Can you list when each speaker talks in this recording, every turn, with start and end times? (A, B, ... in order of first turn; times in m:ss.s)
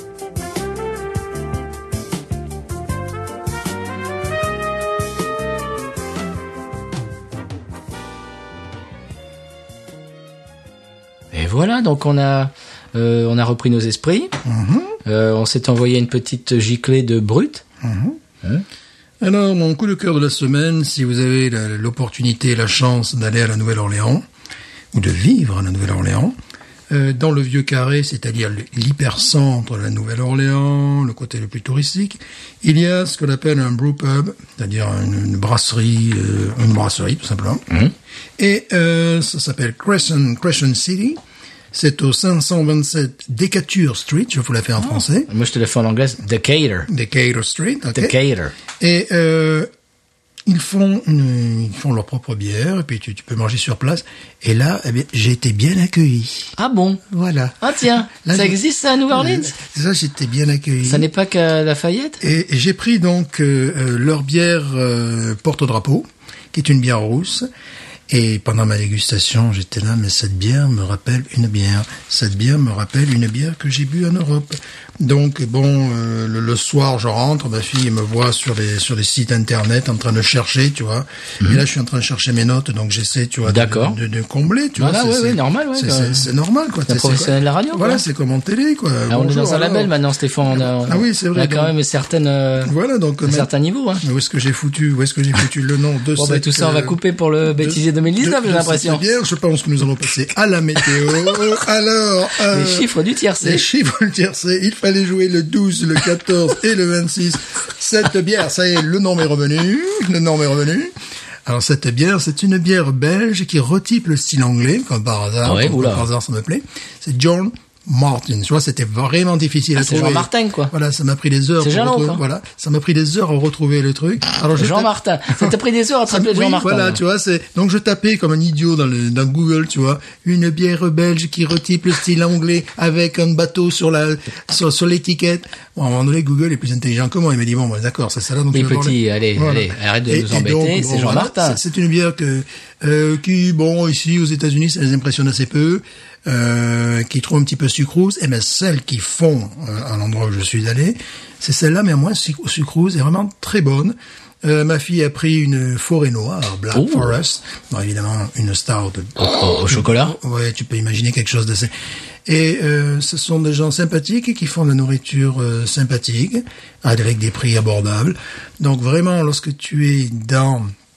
0:11.3-0:14.3 A
0:14.4-0:15.0 B
0:15.0-0:17.6 A
0:17.8-0:18.2 B
0:19.2-0:24.2 B
0:24.9-0:26.4 B
0:26.9-0:37.6 B
0:38.4-0:41.2 B
0:41.7-0:45.3 B
0:44.8-0:46.9 A
0:46.9-0:48.2 B
0:48.0-0:48.5 A
0:48.8-0:49.7 B
0:50.5-0:56.6 B
0:56.6-0:57.0 A
0:57.1-1:01.1 B
0:57.6-0:59.5 A
1:00.8-1:02.2 A
1:02.2-1:07.5 B
1:08.1-1:29.9 B
1:23.5-1:24.0 A
1:24.8-1:26.3 A
1:26.9-1:28.0 A
1:29.1-1:32.7 A
1:30.5-1:31.7 B
1:32.6-1:33.5 B
1:33.2-1:34.0 A
1:34.0-1:42.9 B
1:36.2-1:39.0 A
1:42.5-1:43.7 A
1:43.4-1:50.9 B
1:51.5-2:05.5 B
1:55.4-1:56.1 A
1:59.8-2:00.7 A
2:01.6-2:02.2 A
2:04.6-2:07.0 A
2:06.1-2:41.7 B
2:18.5-2:21.6 A
2:36.7-2:37.1 A
2:39.2-2:40.2 A
2:42.3-2:50.7 B